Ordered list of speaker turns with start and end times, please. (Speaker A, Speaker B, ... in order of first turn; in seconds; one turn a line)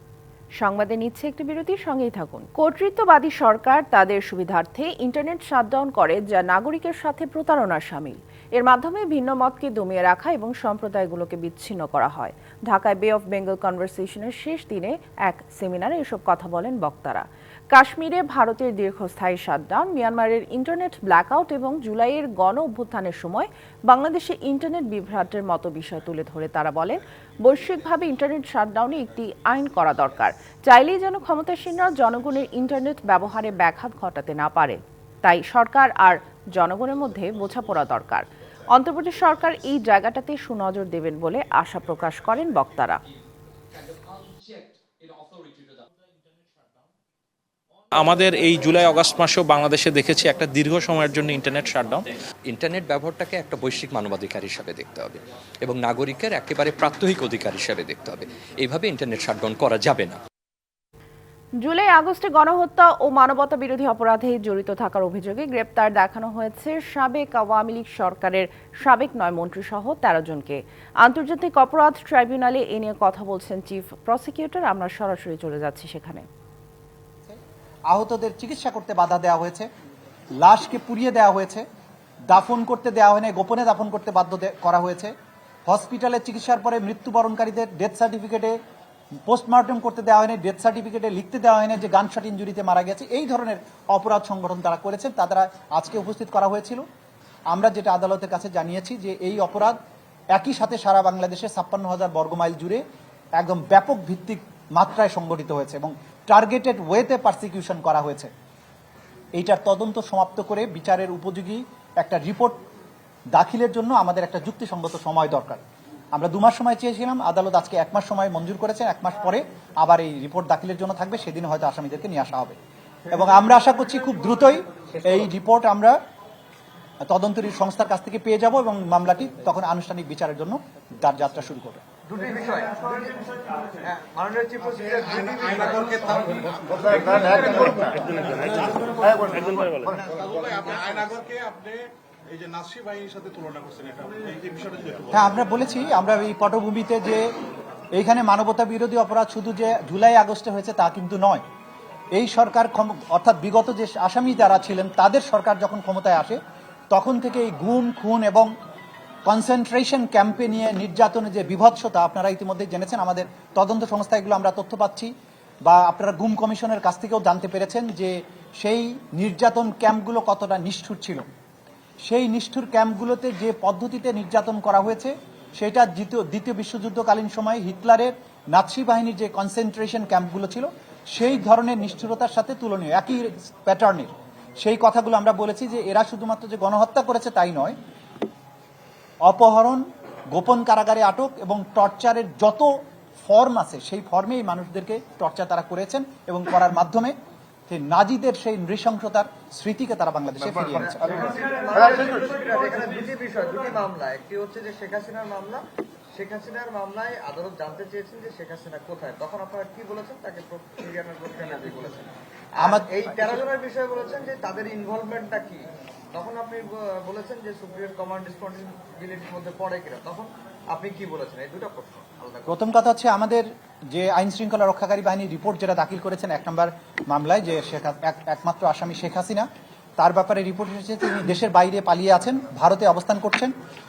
Speaker A: 0.6-43.0
Speaker B: 48.0-52.0
Speaker C: 52.5-60.1
Speaker A: 61.6-76.2
Speaker D: 77.9-79.7
Speaker D: 80.4-81.6
Speaker D: 82.3-85.1
Speaker D: 85.7-88.5
Speaker D: 89.3-96.8
Speaker D: 97.5-99.8
Speaker D: 100.3-102.8
Speaker D: 103.4-108.3
Speaker D: 109.3-112.6
Speaker D: 113.3-115.6
Speaker D: 116.1-122.5
Speaker D: 123.1-125.9
Speaker D: 127.0-131.8
Speaker E: 132.0-137.9
Speaker D: 145.1-147.2
Speaker D: 147.9-151.4
Speaker D: 152.1-156.4
Speaker D: 156.9-158.5
Speaker D: 159.2-165.1
Speaker D: 165.7-171.2
Speaker D: 172.1-187.8
Speaker D: 189.2-189.8
Speaker D: 190.3-192.7
Speaker D: 193.2-197.1
Speaker D: 197.7-200.9
Speaker E: 200.8-222.6
Speaker D: 212.6-212.9
Speaker D: 222.5-229.5
Speaker D: 230.0-233.5